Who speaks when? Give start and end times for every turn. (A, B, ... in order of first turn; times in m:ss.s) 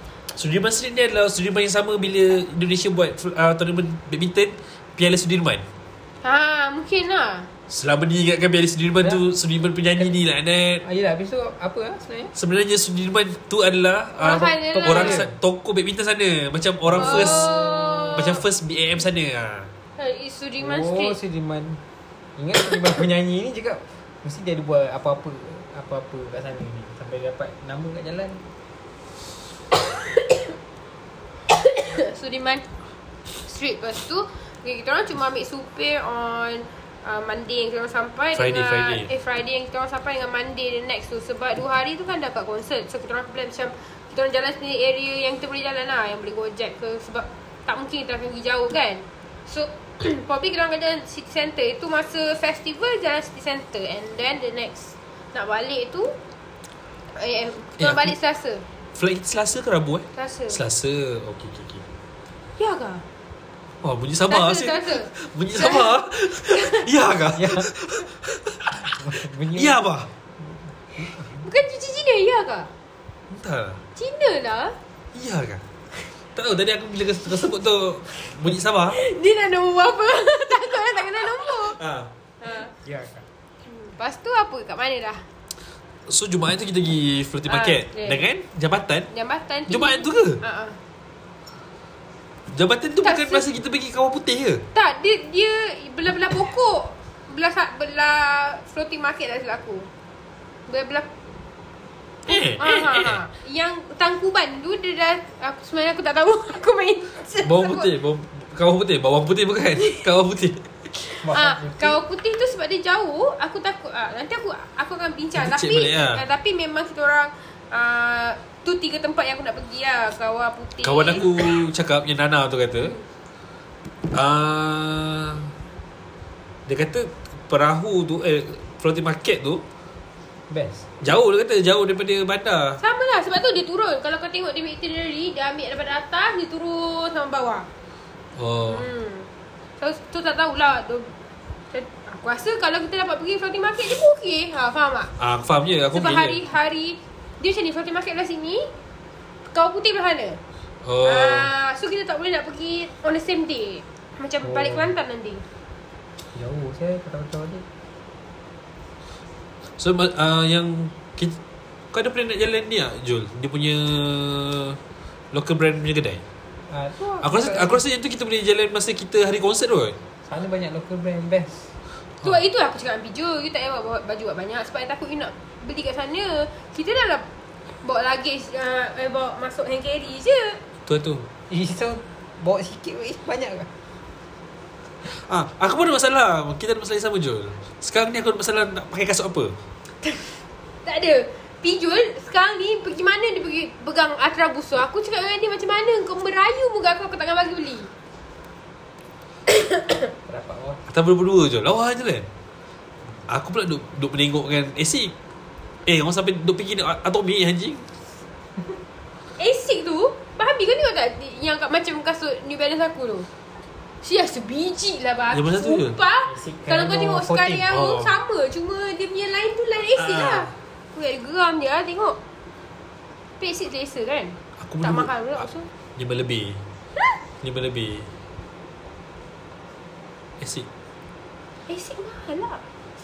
0:00.3-0:05.6 A
0:06.2-0:07.5 B
0:07.7-0:10.8 A
0:10.8-0:12.3 C
0:12.4-0:19.7 A
0:14.2-0:15.3 B
0:14.7-0:15.3 C
0:16.9-0:18.0 C
0:17.0-0:18.4 B
0:20.0-0:21.2 B
0:20.6-0:21.8 C
0:22.4-0:28.4 C
0:31.5-0:32.7 B
0:33.4-0:56.2 B
0:38.4-0:39.1 A
0:57.2-0:58.6 B
0:57.8-0:58.1 A
0:59.0-1:01.8 A
1:00.2-1:00.6 B
1:02.6-1:03.0 B
1:03.8-1:10.1 A
1:04.3-1:06.9 B
1:07.3-1:07.7 C
1:08.8-1:09.8 C
1:10.4-1:11.4 C
1:11.4-1:12.7 B
1:13.3-1:13.8 A
1:14.0-1:14.8 B
1:15.1-1:15.6 A
1:16.4-1:19.0 A
1:18.9-1:21.8 B
1:21.8-1:22.1 A
1:22.4-1:22.7 B
1:22.8-1:23.3 C
1:23.7-1:25.3 B
1:26.1-1:29.1 A
1:27.5-1:28.2 B
1:29.1-1:30.8 B
1:29.7-1:30.4 A
1:32.5-1:34.6 A
1:33.0-1:33.4 B
1:34.7-1:39.9 B
1:40.7-1:41.1 B
1:42.3-1:43.2 A
1:42.3-1:47.9 B
1:47.4-1:50.7 A
1:51.0-2:01.6 B
1:51.2-1:52.0 C
1:55.4-1:56.2 A
2:00.8-2:03.0 A
2:04.1-2:05.5 A
2:06.7-2:09.6 A
2:10.5-2:10.9 C
2:11.0-2:12.8 A
2:12.8-2:17.7 B
2:18.4-2:18.9 A
2:18.7-2:21.2 B
2:21.7-2:25.1 B
2:25.2-2:26.4 A
2:25.9-2:28.7 B
2:29.5-2:30.4 B
2:30.8-2:31.5 A
2:31.0-2:35.4 B
2:34.4-2:34.9 C
2:36.3-2:37.6 C
2:39.8-2:41.4 A
2:41.9-2:44.8 A
2:45.3-2:46.2 A
2:46.7-2:47.8 C
2:47.2-2:50.0 A
2:50.3-2:51.7 C
2:52.2-2:57.3 B
2:57.8-3:00.6 B
3:00.9-3:01.3 A
3:01.5-3:03.7 C
3:05.0-3:09.6 A
3:10.0-3:17.9 B
3:19.5-3:20.1 B
3:20.3-3:20.8 C
3:20.9-3:22.3 A
3:23.3-3:25.1 A
3:25.9-3:27.9 A
3:29.4-3:33.3 B
3:34.0-3:42.2 B
3:35.3-3:36.0 A
3:36.3-3:37.7 C
3:37.7-3:38.2 A
3:40.0-3:40.5 A
3:43.4-3:45.7 B
3:44.6-3:46.6 A
3:47.4-3:48.1 A
3:50.4-3:50.7 A
3:51.7-3:52.6 B